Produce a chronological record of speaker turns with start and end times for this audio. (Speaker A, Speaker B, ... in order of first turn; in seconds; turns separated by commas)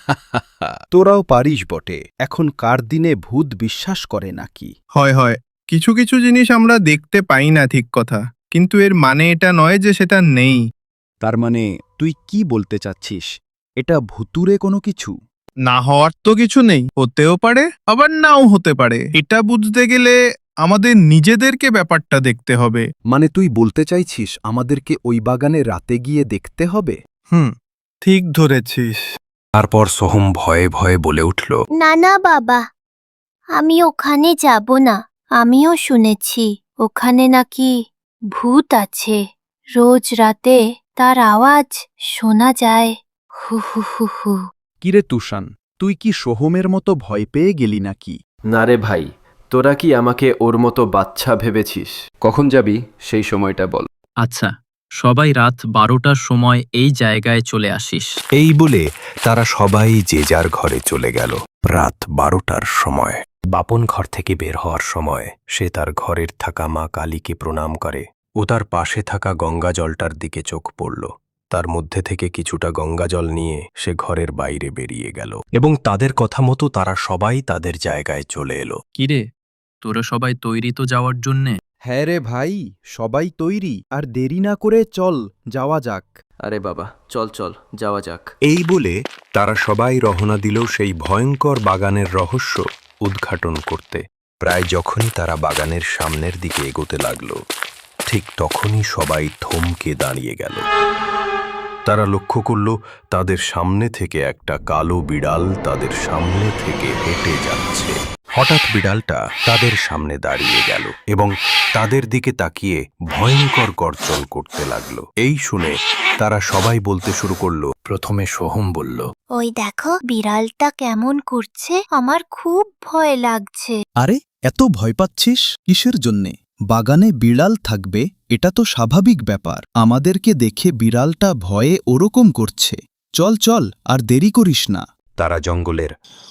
Speaker A: 0.9-4.7, Speaker B: 5.0-10.6, Speaker A: 11.2-13.3, Speaker A: 13.8-15.2, Speaker B: 15.7-22.8, Speaker A: 23.1-27.0, Speaker B: 28.0-28.9, Speaker C: 29.6-31.6, Speaker D: 31.8-32.7, Speaker D: 33.5-44.4, Speaker A: 44.8-48.2, Speaker E: 48.5-53.9, Speaker F: 54.2-58.1, Speaker C: 58.4-78.8, Speaker F: 79.0-79.2, Speaker F: 79.8-81.6, Speaker A: 81.8-86.2, Speaker E: 86.5-88.2, Speaker C: 88.4-97.4, Speaker C: 98.1-100.6, Speaker C: 101.9-119.1, Speaker D: 119.3-123.8, Speaker A: 124.0-134.8, Speaker C: 135.2-135.9